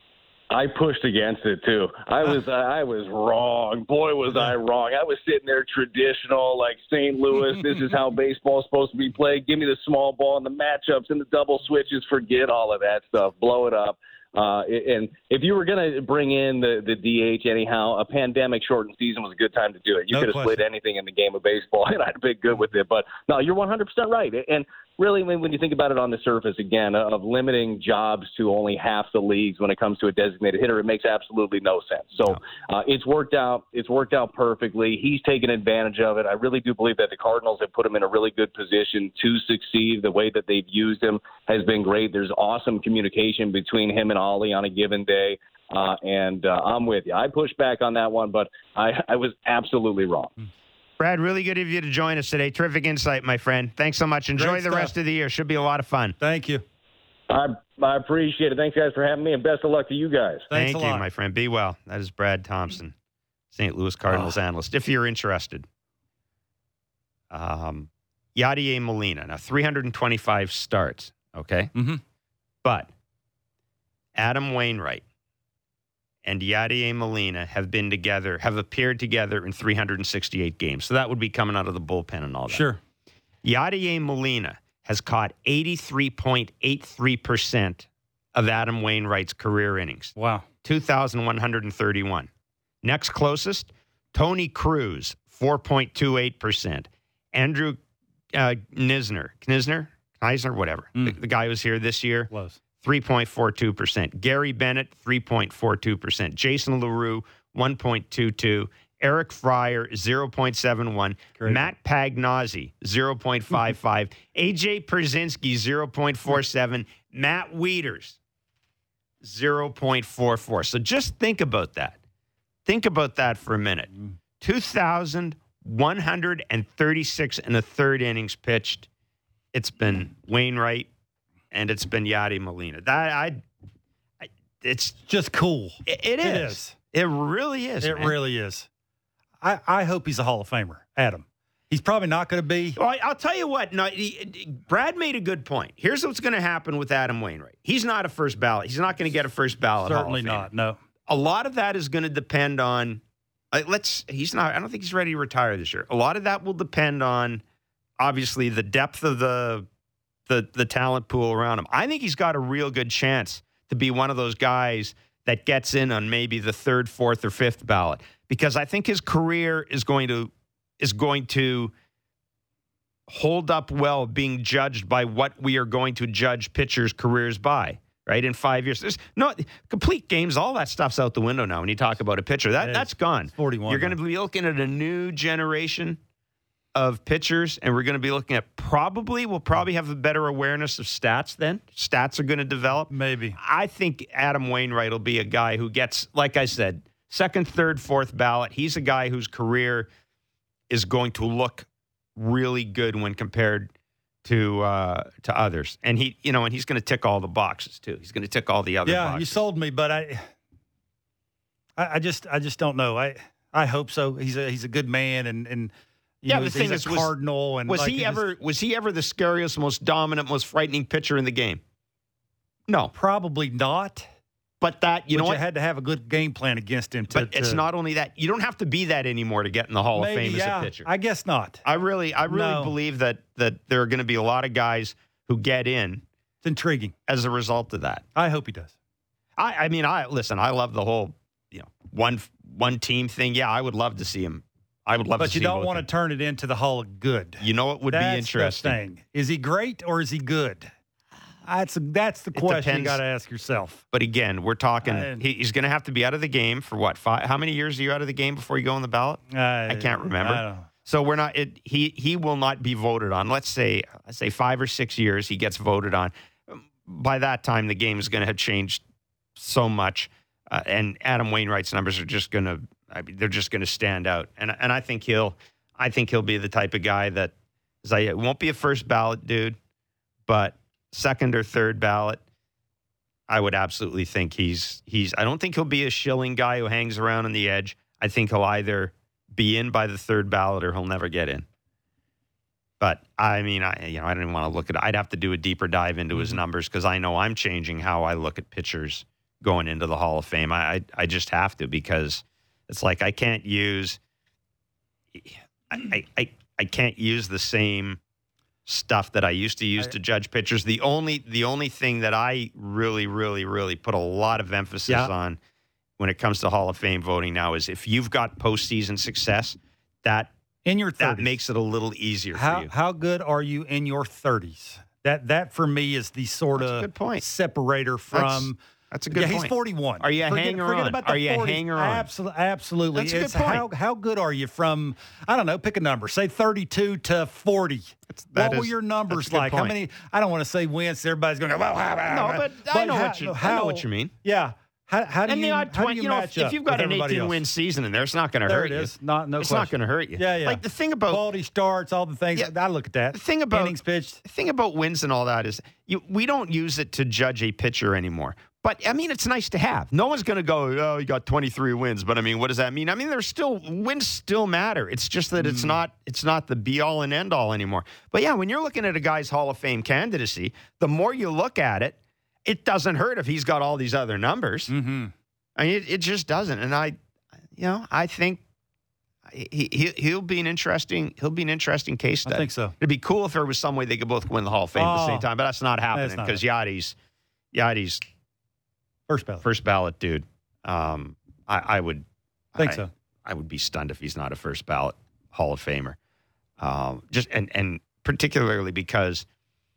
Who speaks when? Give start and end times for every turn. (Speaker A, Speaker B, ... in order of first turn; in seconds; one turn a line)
Speaker A: 0.5-50.3
Speaker B: 20.1-20.6
Speaker C: 51.0-56.2
Speaker B: 54.4-54.9
Speaker B: 56.2-56.6
Speaker A: 57.3-60.5
Speaker B: 60.5-61.0
Speaker C: 60.5-62.9
Speaker C: 63.5-65.7
Speaker C: 67.3-71.7
Speaker B: 71.7-72.0
Speaker C: 72.6-72.9
Speaker C: 74.1-75.0
Speaker C: 76.2-82.6
Speaker B: 82.5-82.8
Speaker C: 83.4-92.3
Speaker B: 90.2-90.5
Speaker C: 92.8-97.8
Speaker C: 98.3-118.2
Speaker B: 102.3-102.6
Speaker B: 111.4-111.7
Speaker C: 119.2-122.0
Speaker C: 122.7-128.9
Speaker C: 129.5-130.9
Speaker C: 131.5-133.4
Speaker C: 134.2-135.0
Speaker B: 135.0-136.7
Speaker C: 135.8-138.2
Speaker B: 137.8-138.7
Speaker B: 139.4-142.8
Speaker C: 142.8-150.5
Speaker B: 149.8-150.8
Speaker C: 151.1-153.0
Speaker C: 153.5-157.4
Speaker C: 158.0-159.7
Speaker C: 160.3-171.7
Speaker C: 173.1-186.0
Speaker B: 182.6-184.0
Speaker C: 186.7-199.9
Speaker B: 192.9-193.4
Speaker C: 200.7-203.7
Speaker C: 204.2-209.4
Speaker B: 208.8-210.3
Speaker B: 211.8-215.7
Speaker B: 216.2-218.2
Speaker C: 216.2-217.1
Speaker C: 217.7-221.6
Speaker C: 222.7-222.9
Speaker B: 222.9-224.1
Speaker C: 224.6-225.4
Speaker B: 225.1-227.6
Speaker C: 227.1-230.9
Speaker B: 229.9-231.6
Speaker C: 231.6-236.0
Speaker B: 232.3-232.7
Speaker B: 236.4-236.9
Speaker C: 237.1-238.0
Speaker B: 238.1-238.7
Speaker C: 239.4-245.8
Speaker B: 245.2-250.7
Speaker C: 247.4-248.8
Speaker B: 251.4-253.8
Speaker C: 252.3-253.0
Speaker C: 253.9-268.8
Speaker B: 254.8-255.2
Speaker B: 259.3-260.7
Speaker C: 269.4-279.6
Speaker C: 280.2-282.2
Speaker C: 283.3-291.4
Speaker C: 292.8-304.0
Speaker B: 296.1-296.4
Speaker C: 305.1-308.0
Speaker C: 308.6-315.4
Speaker C: 316.0-320.3
Speaker B: 320.6-321.4
Speaker C: 321.0-322.7
Speaker B: 322.3-328.6
Speaker C: 326.5-327.2
Speaker C: 328.1-332.1
Speaker B: 329.1-347.4
Speaker C: 332.9-333.6
Speaker C: 338.1-339.7
Speaker C: 342.1-344.1
Speaker C: 345.3-351.3
Speaker B: 348.4-354.2
Speaker C: 353.1-374.7
Speaker B: 365.4-365.8
Speaker B: 374.7-375.1
Speaker C: 375.6-377.0
Speaker C: 377.5-378.4
Speaker C: 379.3-386.9
Speaker B: 382.2-382.7
Speaker B: 384.8-385.2
Speaker B: 385.9-386.4
Speaker C: 387.5-388.0
Speaker B: 389.1-389.4
Speaker C: 389.4-396.0
Speaker B: 392.6-392.9
Speaker C: 396.6-399.2